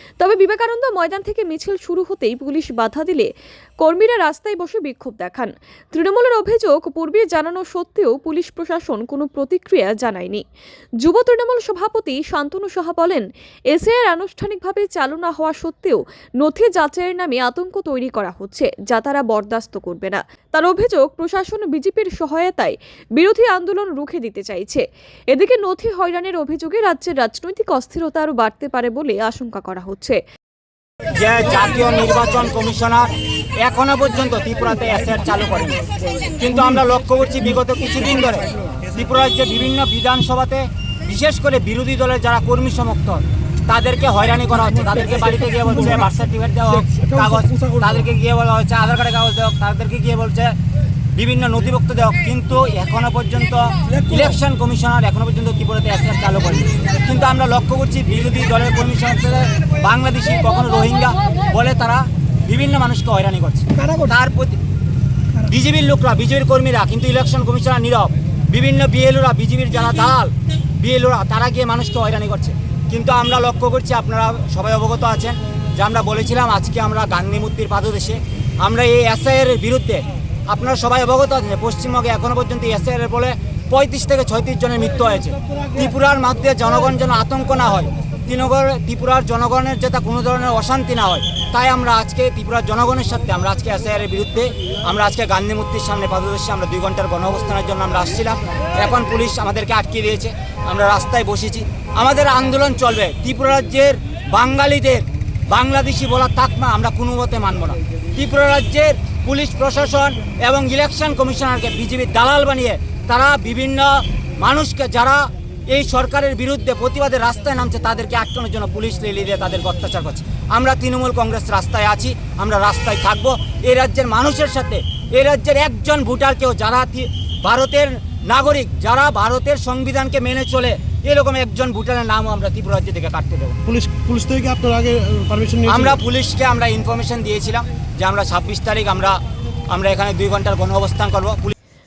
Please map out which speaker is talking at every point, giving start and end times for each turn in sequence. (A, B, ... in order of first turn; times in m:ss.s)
0:00.2-0:10.4 A
0:11.0-0:30.2 A
0:31.1-0:33.1 B
0:33.6-0:35.8 B
0:36.4-0:50.5 B
0:46.9-0:47.8 C
0:51.1-1:04.6 B
1:05.4-2:13.6 B
2:13.7-2:15.9 C
2:15.7-2:19.2 B
2:19.7-2:21.6 B